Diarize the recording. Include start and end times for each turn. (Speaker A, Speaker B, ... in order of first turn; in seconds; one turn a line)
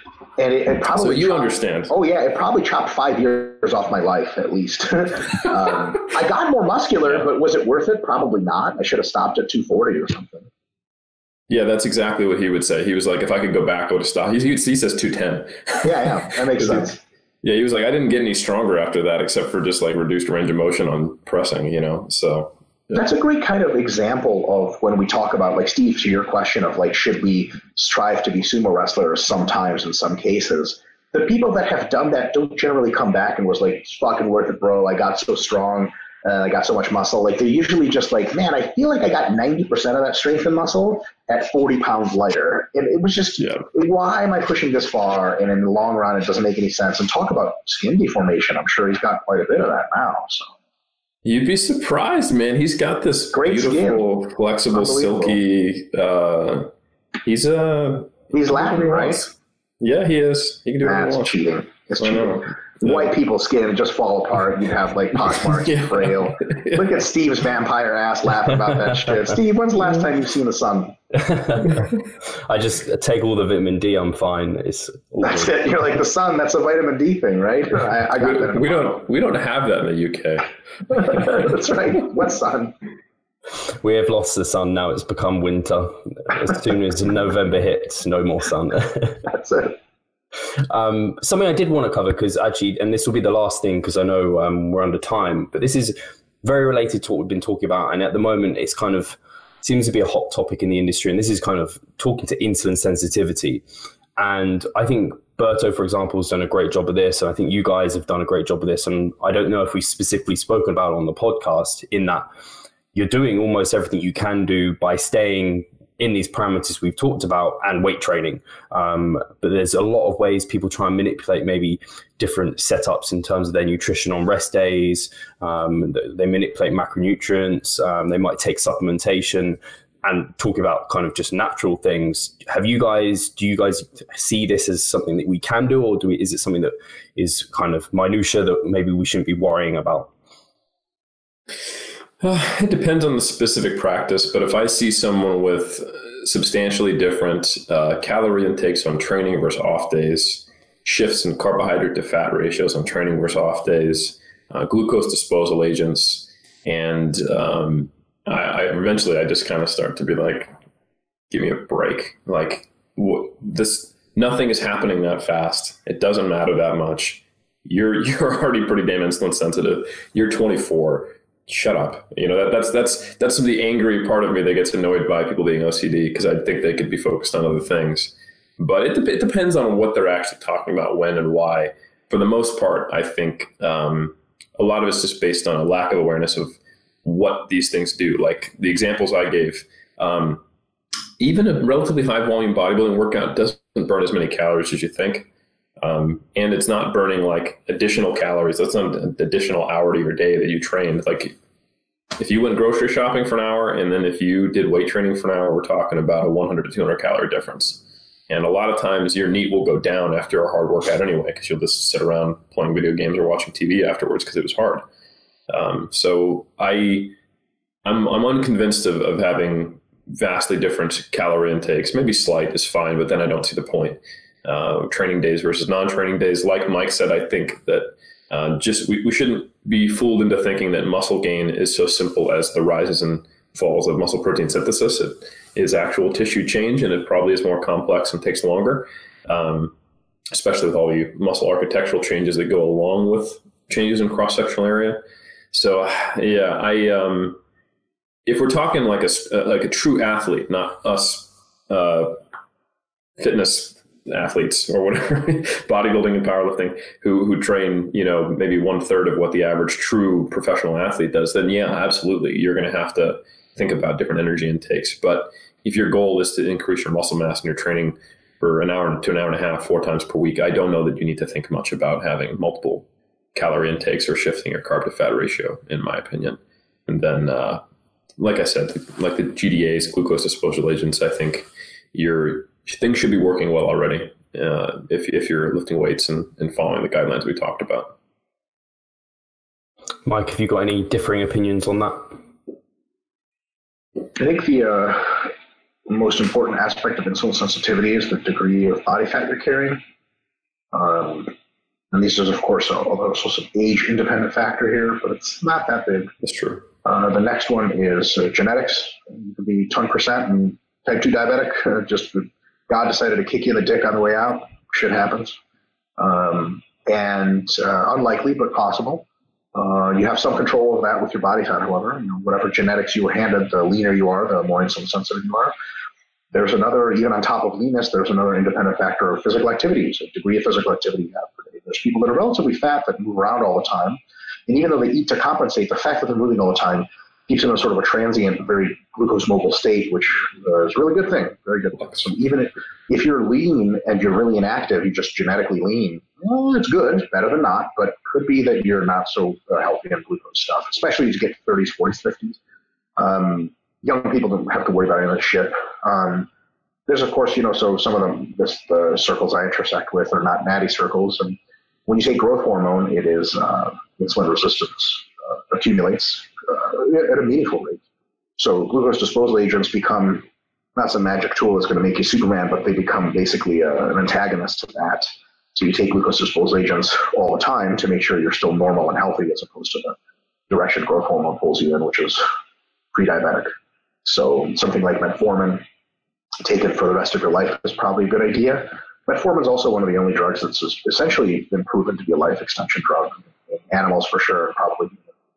Speaker A: 0.4-10.5
Speaker B: 0.9-1.9
Speaker B: 11.5-23.0
Speaker A: 15.8-17.0
Speaker A: 22.9-50.5
Speaker B: 43.4-43.7
Speaker B: 51.2-56.7
Speaker A: 53.3-54.0
Speaker A: 54.7-55.4
Speaker B: 57.2-61.3
Speaker A: 58.3-59.3
Speaker A: 60.8-71.0
Speaker B: 62.0-63.1
Speaker B: 65.4-67.1
Speaker C: 71.2-75.5
Speaker A: 75.2-79.0
Speaker B: 78.2-81.3
Speaker A: 80.9-82.8
Speaker C: 83.8-89.3
Speaker A: 89.3-89.8
Speaker C: 90.7-103.6
Speaker C: 104.2-112.3
Speaker C: 112.9-140.1
Speaker B: 142.2-160.5
Speaker B: 161.3-190.4
Speaker B: 191.2-195.3
Speaker B: 195.8-201.3
Speaker B: 202.2-214.8
Speaker B: 215.5-217.2
Speaker B: 217.8-239.8
Speaker B: 240.3-247.4
Speaker B: 248.3-252.2
Speaker B: 253.2-277.6
Speaker B: 278.2-287.9
Speaker C: 290.1-292.1
Speaker A: 294.2-295.3
Speaker A: 295.9-299.8
Speaker A: 300.7-301.3
Speaker A: 301.9-306.1
Speaker B: 306.2-306.7
Speaker A: 306.9-315.4
Speaker A: 316.0-325.5
Speaker A: 326.3-352.4
Speaker A: 353.0-356.3
Speaker A: 356.9-367.8
Speaker A: 368.4-370.2
Speaker A: 370.8-380.0
Speaker A: 380.5-382.2
Speaker A: 382.9-383.5
Speaker A: 384.0-385.6
Speaker A: 386.4-395.1